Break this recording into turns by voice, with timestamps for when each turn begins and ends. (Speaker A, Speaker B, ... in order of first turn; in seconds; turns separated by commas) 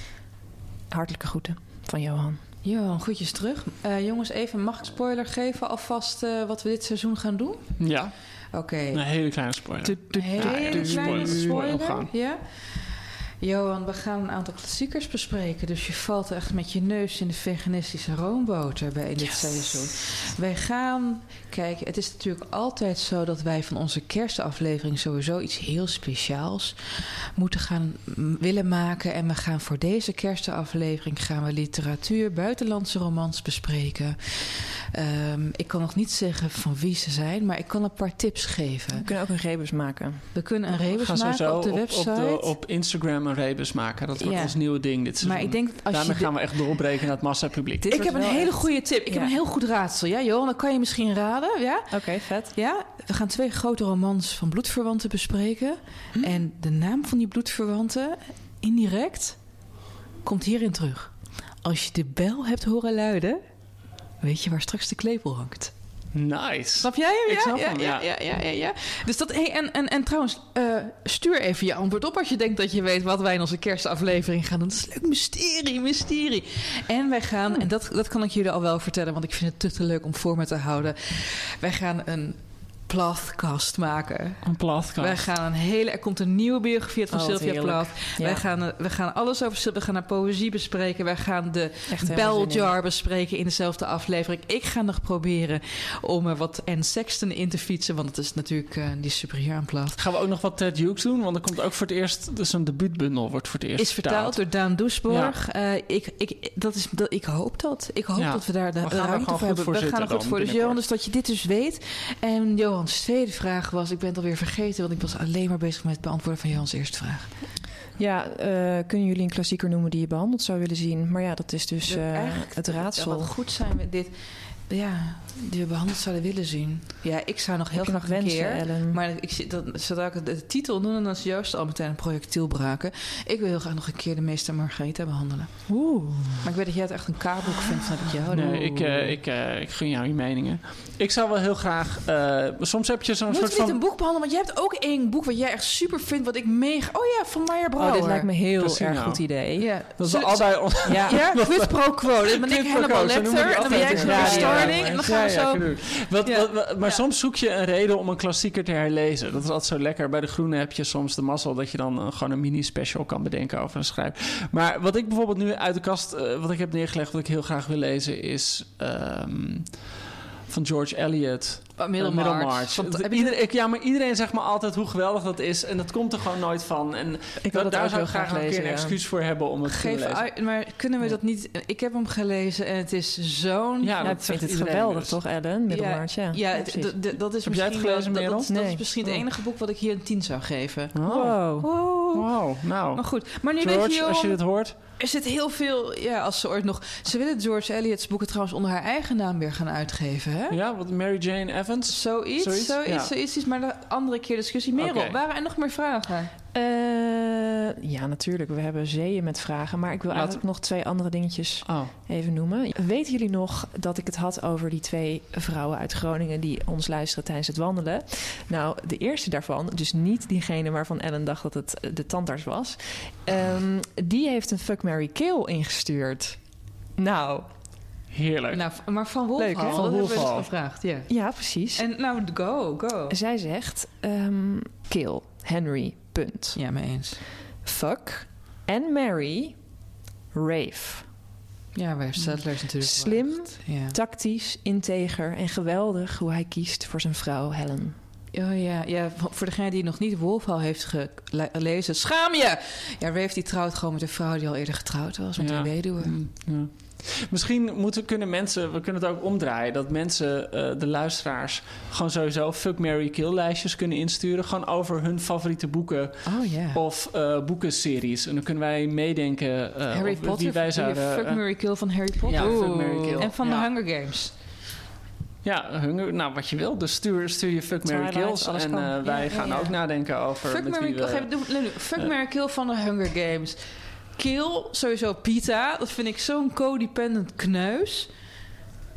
Speaker A: 0.9-2.4, Speaker B: 2.6-7.9, Speaker C: 7.8-8.3, Speaker B: 8.5-39.0, Speaker C: 8.9-12.1, Speaker A: 10.3-11.6, Speaker A: 19.2-19.9, Speaker A: 39.0-40.3, Speaker B: 40.3-42.5, Speaker C: 40.9-48.1, Speaker B: 44.2-46.6, Speaker B: 47.8-59.4, Speaker A: 47.9-49.4, Speaker A: 51.9-52.5, Speaker B: 60.2-63.4, Speaker B: 64.2-65.7, Speaker C: 66.1-68.1, Speaker B: 66.8-84.4, Speaker C: 84.5-85.2, Speaker B: 85.0-100.0, Speaker A: 87.1-88.4, Speaker A: 91.9-92.7, Speaker C: 100.0-104.4, Speaker B: 103.8-117.3, Speaker C: 105.1-105.4, Speaker C: 108.2-110.8, Speaker A: 118.0-123.3, Speaker B: 121.9-124.1, Speaker B: 124.7-135.6, Speaker A: 127.7-129.0, Speaker A: 135.7-136.5, Speaker B: 136.4-138.9, Speaker C: 138.3-143.8, Speaker B: 143.3-148.3, Speaker A: 147.8-149.7, Speaker C: 148.6-149.3, Speaker B: 149.6-157.0, Speaker C: 150.0-169.8, Speaker A: 150.9-151.4, Speaker A: 153.6-155.1, Speaker C: 170.5-180.3, Speaker B: 171.8-173.3, Speaker A: 177.4-179.0, Speaker B: 179.7-184.2, Speaker C: 183.8-185.2, Speaker A: 184.0-186.9, Speaker B: 185.7-190.9, Speaker C: 187.4-188.5, Speaker A: 188.5-188.9, Speaker C: 190.9-191.4, Speaker A: 191.1-191.7, Speaker B: 191.6-192.3, Speaker C: 192.1-194.8, Speaker B: 192.9-194.4, Speaker B: 195.0-200.6, Speaker C: 200.5-203.1, Speaker B: 201.9-206.3, Speaker C: 204.8-205.2, Speaker A: 206.5-226.4, Speaker C: 210.1-210.4, Speaker C: 211.7-211.9, Speaker A: 227.0-227.5, Speaker C: 228.1-228.9, Speaker B: 228.5-231.1, Speaker A: 229.4-230.3, Speaker C: 229.5-230.5, Speaker A: 231.1-231.8, Speaker B: 231.7-233.2, Speaker A: 233.1-236.6, Speaker B: 236.6-237.2, Speaker A: 237.6-239.6, Speaker A: 240.3-241.1, Speaker B: 241.8-244.0, Speaker A: 242.2-248.0, Speaker B: 248.3-256.2, Speaker C: 255.4-273.7, Speaker B: 266.3-266.8, Speaker B: 269.9-274.3, Speaker A: 272.4-272.8, Speaker C: 275.4-282.1, Speaker A: 277.9-279.4, Speaker B: 279.1-283.6, Speaker B: 284.2-288.1